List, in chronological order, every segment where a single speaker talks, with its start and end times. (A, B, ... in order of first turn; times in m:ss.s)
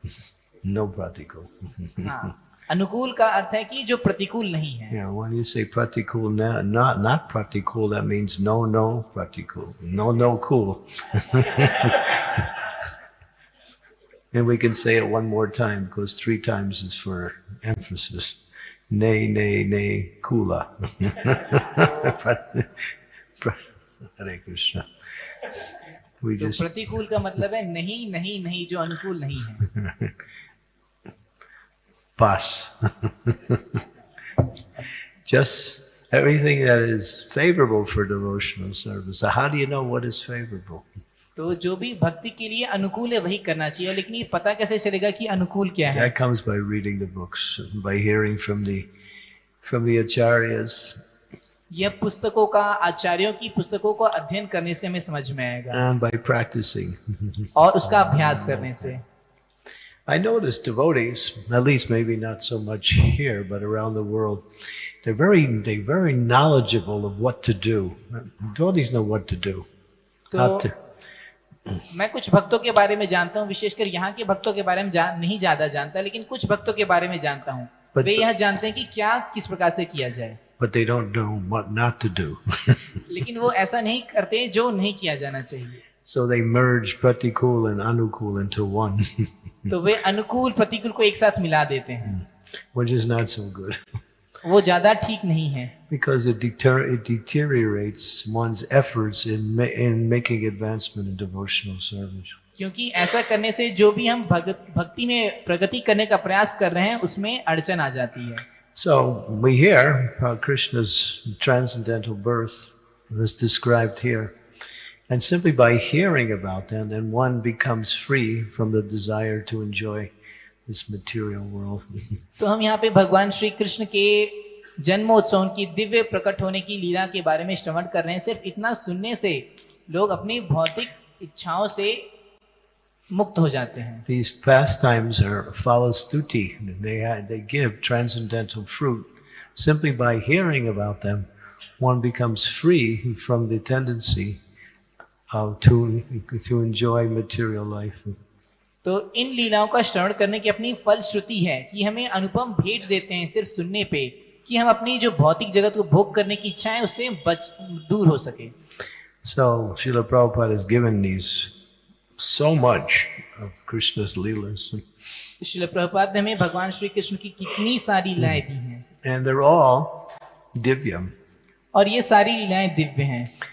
0:00.6-0:02.3 A
0:02.0-0:05.0 B
0:04.9-0:12.8 A
0:14.3-0:25.7 A
0:21.8-0:22.1 B
0:26.2-0:26.7 A
0:26.4-0:29.6 B
0:29.6-0:30.2 A
0:32.2-0:33.8 A
0:35.2-0:40.9 A
0:41.4-0:46.1 B
0:45.9-0:48.9 A
0:49.6-0:51.0 A
0:51.7-0:55.8 B
0:55.7-0:59.0 A
0:57.6-0:59.0 B
1:00.1-1:09.7 A
1:10.3-1:10.7 B
1:10.3-1:10.8 A
1:11.9-1:20.4 B
1:17.9-1:18.3 A
1:20.6-1:23.0 A
1:23.1-1:25.8 B
1:26.0-1:29.7 A
1:29.7-1:32.2 B
1:32.0-1:34.0 A
1:34.4-1:35.7 B
1:35.9-1:42.4 A
1:42.6-1:48.4 B
1:48.7-1:54.3 A
1:55.1-2:00.1 A
2:00.6-2:02.2 A
2:02.4-2:12.1 B
2:13.1-2:14.0 B
2:14.0-2:24.4 A
2:25.3-2:28.2 A
2:28.8-2:38.5 B
2:39.2-2:41.6 A
2:42.2-2:44.8 A
2:45.4-2:48.8 B
2:49.0-2:51.1 A
2:51.7-2:53.3 B